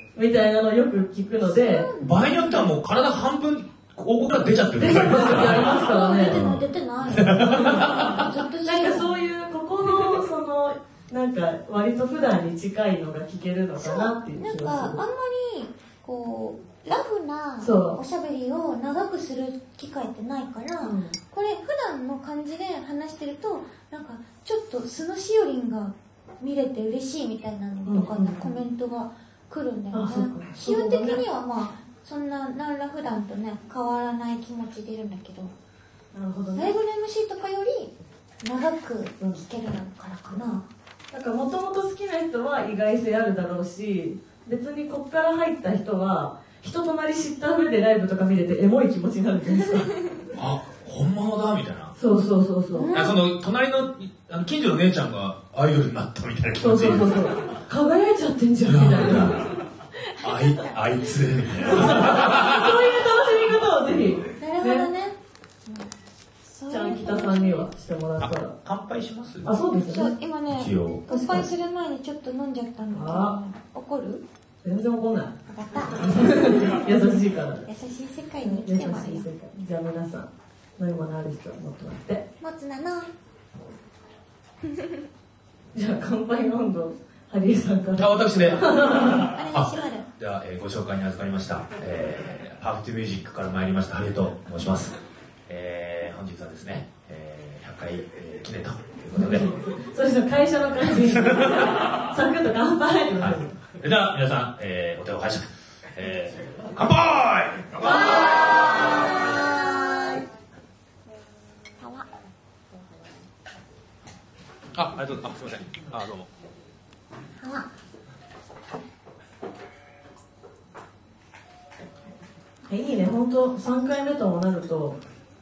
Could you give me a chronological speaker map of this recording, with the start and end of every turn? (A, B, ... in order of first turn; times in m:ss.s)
0:00.1-0:01.9 A
0:01.4-0:02.7 B
0:02.0-0:08.2 C
0:04.8-0:06.4 A
0:05.7-0:09.1 B
0:08.6-0:15.0 A
0:13.8-0:35.5 B
0:17.6-0:18.0 A
0:20.8-0:21.2 A
0:27.8-0:28.6 A
0:29.9-0:31.2 A
0:36.1-0:36.7 A
0:36.5-0:40.6 B
0:41.1-0:49.9 A
0:50.3-0:51.9 C
0:52.0-0:52.9 A
0:52.7-0:53.2 B
0:52.9-0:57.3 C
0:56.6-0:59.4 A
0:58.6-0:59.6 C
1:00.2-1:00.7 B
1:00.2-1:02.8 C
1:01.7-1:04.9 A
1:04.4-1:05.1 B
1:05.6-1:05.9 B
1:06.5-1:07.7 B
1:06.7-1:08.5 A
1:08.2-1:09.6 C
1:09.4-1:10.1 A
1:09.7-1:14.2 B
1:10.5-1:11.0 C
1:11.1-1:11.5 A
1:12.9-1:13.4 A
1:14.6-1:15.3 A
1:15.5-1:16.8 B
1:16.0-1:17.6 A
1:17.6-1:19.2 B
1:18.4-1:22.2 A
1:22.4-1:23.1 B
1:25.7-1:29.3 A
1:28.0-1:35.0 C
1:29.0-1:30.1 B
1:35.5-1:39.5 C
1:39.1-1:43.6 A
1:40.8-1:41.7 C
1:43.2-1:47.9 C
1:47.8-1:50.2 B
1:51.8-1:52.0 B
1:54.7-1:56.3 C
1:57.4-1:57.7 B
2:02.7-2:05.0 A